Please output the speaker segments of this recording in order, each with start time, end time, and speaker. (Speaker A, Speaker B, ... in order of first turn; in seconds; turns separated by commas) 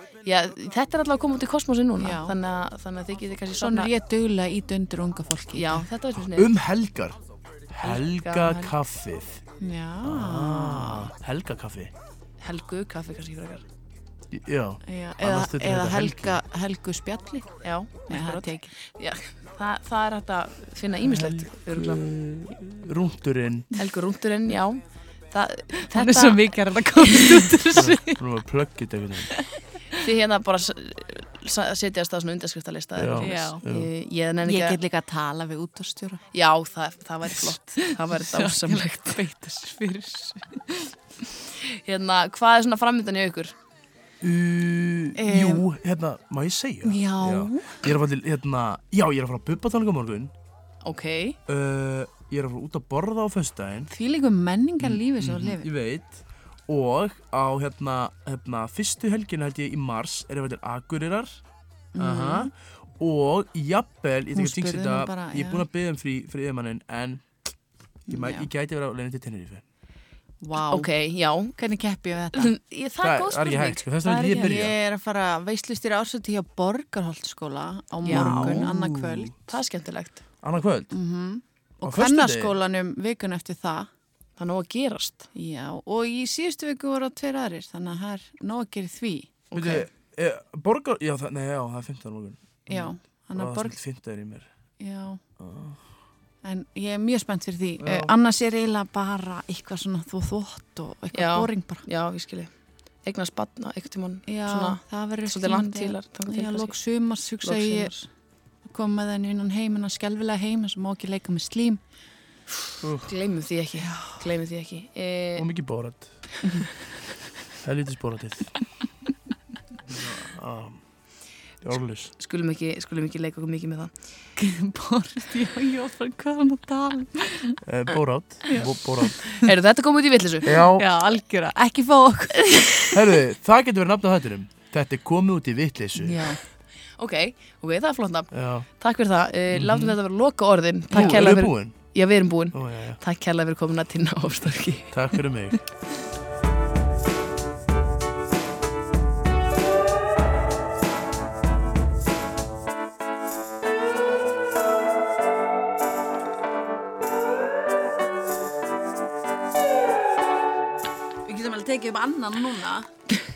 Speaker A: 0.2-3.9, Speaker B: 2.0-2.4, Speaker B: 3.6-5.9, Speaker A: 5.5-6.5, Speaker C: 6.2-9.4, Speaker A: 7.8-8.7, Speaker B: 9.6-11.1, Speaker C: 10.0-11.9, Speaker A: 12.4-13.7, Speaker C: 14.3-16.4, Speaker B: 14.9-18.7, Speaker A: 17.6-22.0, Speaker C: 21.0-23.7, Speaker A: 23.8-26.4, Speaker B: 25.8-28.2, Speaker C: 27.8-29.3, Speaker A: 29.9-34.8, Speaker C: 33.0-33.9, Speaker B: 33.2-33.6, Speaker B: 34.4-36.2, Speaker A: 36.3-39.2, Speaker B: 37.3-40.9, Speaker A: 41.6-43.5, Speaker C: 44.2-50.3, Speaker B: 45.2-45.7, Speaker B: 46.8-47.9, Speaker A: 50.8-51.4, Speaker C: 51.5-53.9, Speaker B: 53.9-55.7, Speaker C: 54.8-61.4, Speaker B: 62.0-62.5, Speaker C: 62.0-67.4, Speaker B: 64.3-65.7, Speaker C: 68.1-69.6, Speaker B: 68.1-68.5, Speaker B: 70.4-70.9, Speaker A: 70.6-71.5, Speaker B: 71.5-72.5, Speaker A: 72.3-74.6, Speaker C: 73.0-74.8, Speaker B: 74.3-79.3, Speaker A: 78.0-78.7, Speaker C: 78.1-79.3, Speaker A: 79.5-80.2, Speaker C: 80.4-81.0, Speaker B: 80.9-83.9, Speaker C: 81.8-82.5, Speaker A: 84.4-85.3, Speaker B: 85.3-89.3, Speaker A: 89.5-89.9, Speaker C: 89.5-94.5, Speaker B: 92.7-93.8, Speaker B: 94.8-95.2, Speaker C: 95.4-95.8, Speaker B: 96.4-101.8, Speaker C: 97.8-98.1, Speaker A: 101.1-102.5, Speaker A: 103.0-106.8, Speaker B: 104.3-107.9, Speaker A: 107.4-108.1, Speaker B: 108.7-111.8, Speaker C: 112.8-113.1, Speaker A: 113.0-115.5, Speaker B: 113.8-114.2, Speaker C: 115.4-116.2, Speaker C: 117.6-118.7, Speaker C: 119.8-120.8, Speaker C: 121.6-122.1, Speaker A: 122.2-124.0, Speaker B: 124.4-127.6, Speaker C: 127.7-129.2, Speaker B: 128.5-129.5, Speaker A: 129.4-130.5, Speaker C: 130.5-130.9, Speaker B: 130.8-132.9, Speaker C: 132.9-136.3, Speaker A: 136.0-136.4, Speaker A: 136.9-145.3, Speaker C: 138.3-138.7, Speaker C: 139.5-140.0, Speaker B: 140.9-141.4, Speaker C: 140.9-143.0, Speaker C: 144.9-145.6, Speaker B: 161.3-162.9